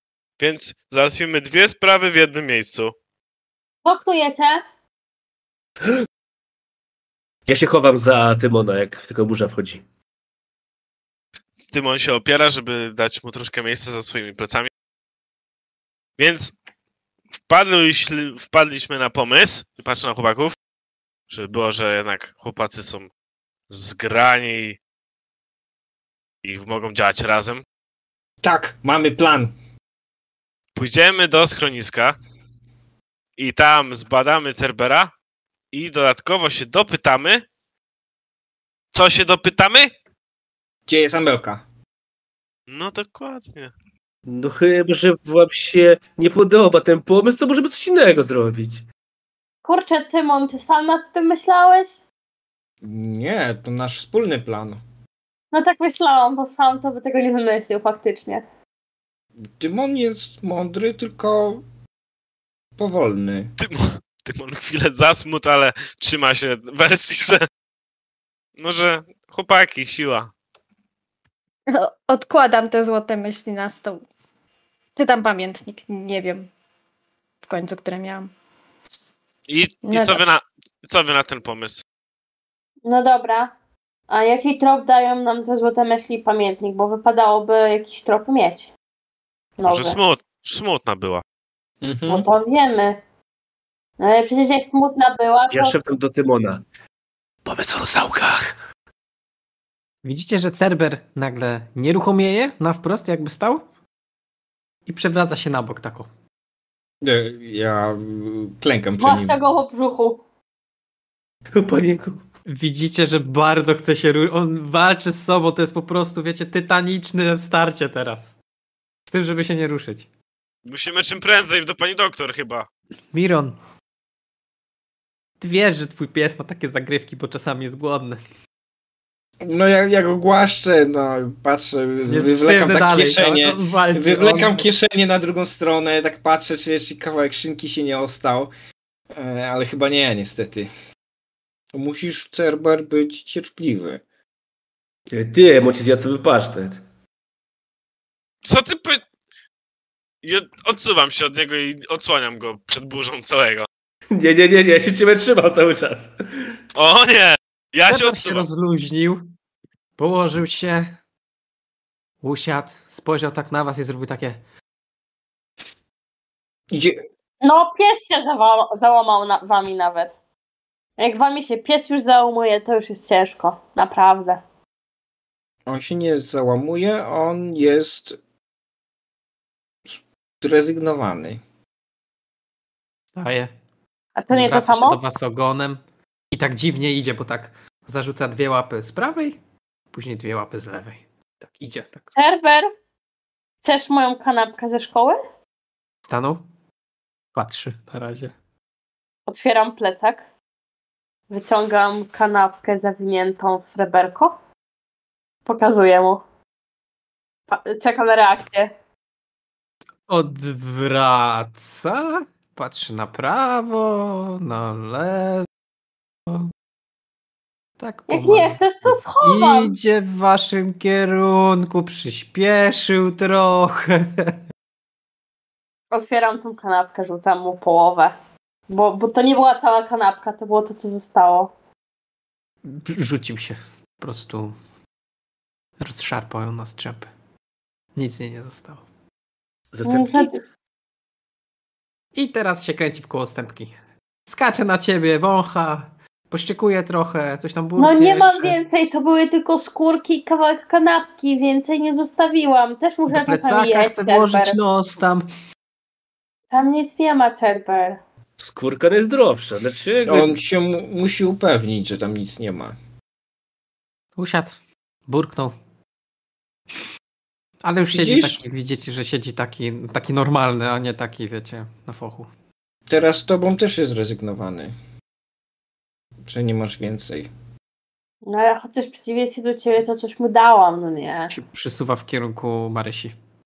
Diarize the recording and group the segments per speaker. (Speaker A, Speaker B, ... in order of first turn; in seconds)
Speaker A: 0.4-2.9, 11.6-14.7, 16.2-16.5, 17.5-20.5, 21.3-23.1, 23.7-24.8, 26.4-27.6, 30.7-32.1, 33.4-35.1, 35.7-37.4, 38.9-39.9, 42.7-43.7, 63.6-67.4, 68.6-70.3, 79.5-81.8, 89.7-91.2, 120.7-122.7, 148.4-149.0, 150.2-153.7, 156.8-158.4
Speaker B: 3.8-4.6, 49.6-52.0, 55.5-58.4, 82.8-83.5, 84.1-88.7, 89.6-90.0, 92.1-93.0, 94.0-95.8, 109.0-110.2, 167.4-170.1, 171.0-174.4, 184.2-185.0, 192.1-192.7, 193.6-195.2, 199.3-200.2, 201.3-204.3, 205.4-206.2, 207.5-208.7, 218.1-219.7, 225.9-228.1, 228.7-231.5, 239.8-240.4, 247.8-254.6, 256.5-258.0, 278.2-281.3
Speaker C: 7.5-9.8, 44.2-48.8, 95.5-96.6, 97.4-98.5, 111.5-112.2, 145.1-146.8, 154.1-156.5, 239.7-240.3, 258.4-260.4
Speaker D: 28.4-29.5, 40.9-41.6, 52.8-54.8, 59.5-61.6, 62.8-63.5, 91.8-92.2, 107.0-109.4, 129.4-138.5, 139.1-140.7, 141.7-144.0, 166.7-167.0, 175.7-178.2, 180.4-181.4, 260.1-262.8, 267.9-268.4, 272.9-274.7, 276.2-277.3
Speaker E: 71.7-74.0, 75.0-76.5, 77.4-78.3, 79.8-80.3
Speaker F: 100.0-103.7, 104.8-106.1, 112.5-118.4, 119.1-120.1, 123.1-123.6, 125.4-128.2, 132.1-134.7, 157.9-159.3, 160.0-161.0, 162.2-164.4, 183.1-183.5, 184.3-185.8, 186.3-189.4, 189.9-192.1, 196.0-196.4, 197.3-198.3, 210.1-215.5, 216.3-216.5, 217.8-218.6, 219.2-224.4, 232.6-234.6, 235.8-237.1, 237.9-238.8, 242.1-243.7, 244.3-248.6, 253.1-255.3, 264.1-265.5, 267.6-272.3, 281.3-283.1